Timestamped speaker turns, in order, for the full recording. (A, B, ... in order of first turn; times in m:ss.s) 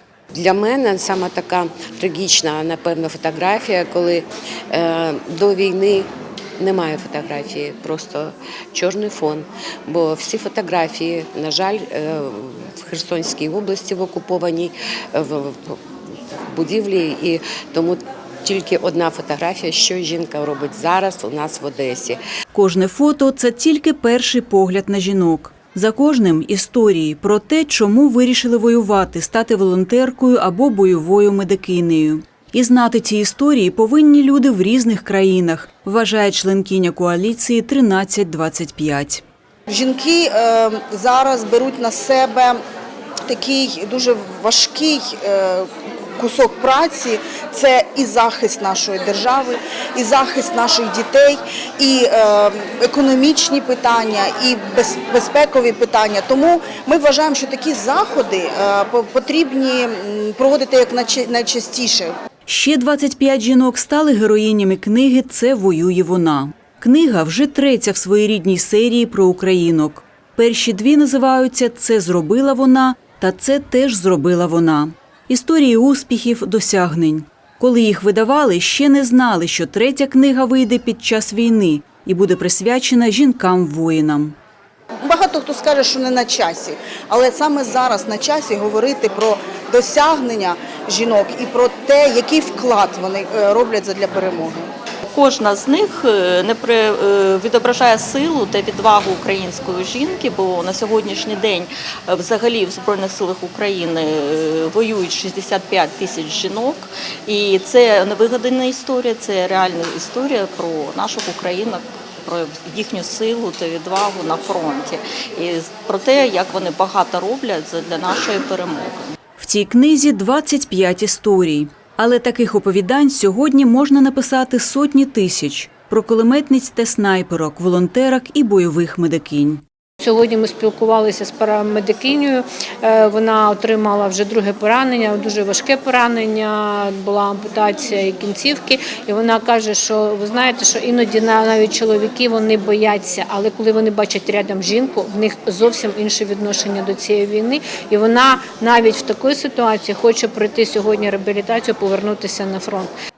0:00.3-0:22.2 A
0:22.5-0:39.2 B
0:39.7-0:42.6 C
0:43.3-1:02.1 C
1:02.5-1:24.4 B
1:25.0-1:34.7 C
1:35.1-1:59.1 D
1:59.4-2:09.6 B
2:10.0-2:32.9 E